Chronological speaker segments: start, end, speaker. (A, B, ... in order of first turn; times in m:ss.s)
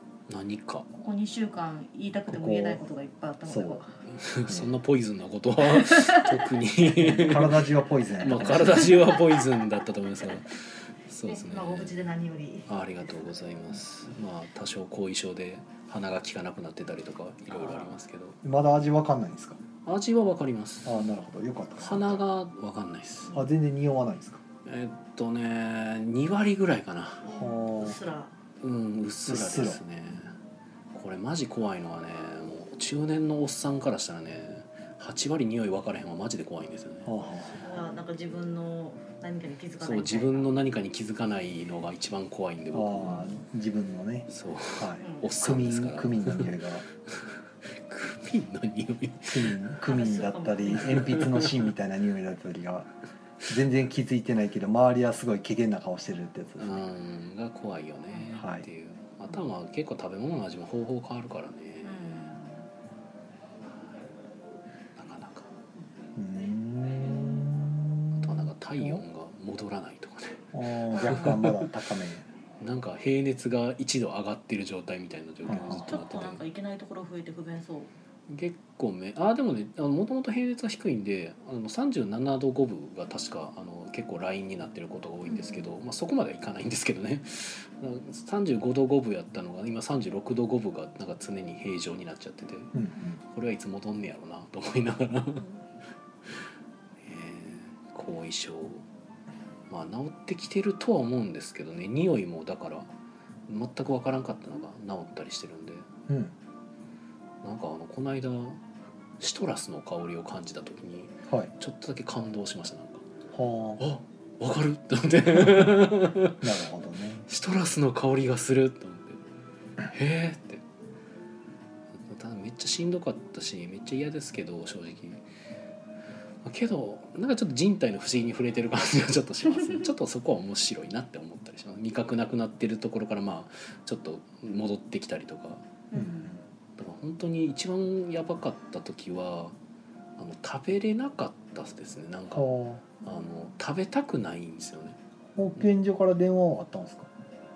0:00.3-0:00.9 A
0:00.9-0:04.0 B
0:02.3-0:02.8 C
0:03.4-0:03.8 C
0:04.1-0:12.0 A
0:05.7-0:06.5 B
0:07.0-0:09.0 C
0:08.7-0:09.6 B
0:11.3-0:12.7 B
0:12.7-0:18.4 A
0:18.4-0:19.6 C
0:19.8-0:21.1 A
0:20.8-0:22.2 C
0:21.8-0:23.4 A
0:23.3-0:24.4 C
0:24.6-0:27.3 A
0:27.2-0:28.3 B
0:27.3-0:28.0 C
0:28.6-0:30.4 A
0:29.3-0:29.8 C
0:30.9-0:37.1 A
0:37.0-0:37.7 C
0:37.6-0:40.5 B
0:39.8-0:43.3 A
0:42.7-0:46.8 C
0:44.3-0:46.6 A
0:45.0-0:45.3 B
0:47.1-0:49.6 A
0:49.2-0:52.9 C
0:49.9-0:51.3 B
0:50.9-0:51.5 A
0:53.5-0:56.9 C
0:56.6-1:02.1 A
0:58.3-0:58.7 C
1:01.8-1:02.7 B
1:05.0-1:05.5 A
1:06.2-1:09.0 C
1:07.0-1:07.4 B
1:08.2-1:11.7 A
1:10.5-1:12.2 C
1:10.9-1:11.4 B
1:12.6-1:16.4 A
1:15.5-1:16.0 C
1:15.5-1:17.9 B
1:18.3-1:32.7 A
1:25.3-1:25.7 B
1:32.7-1:33.2 C
1:33.3-1:35.5 A
1:37.0-1:38.8 A
1:39.7-1:42.9 A
1:43.5-1:45.9 A
1:46.1-1:46.3 C
1:47.4-1:48.6 A
1:49.2-1:53.0 A
1:53.3-1:53.8 C
1:53.8-1:56.5 A
1:56.4-1:57.2 C
1:57.3-1:59.2 A
1:59.8-2:00.6 A
2:02.0-2:05.2 A
2:06.4-2:15.6 A
2:15.9-2:16.3 B
2:15.9-2:16.4 C
2:16.8-2:19.6 A
2:20.2-2:22.5 A
2:22.3-2:22.8 C
2:23.0-2:25.0 A
2:25.4-2:27.1 C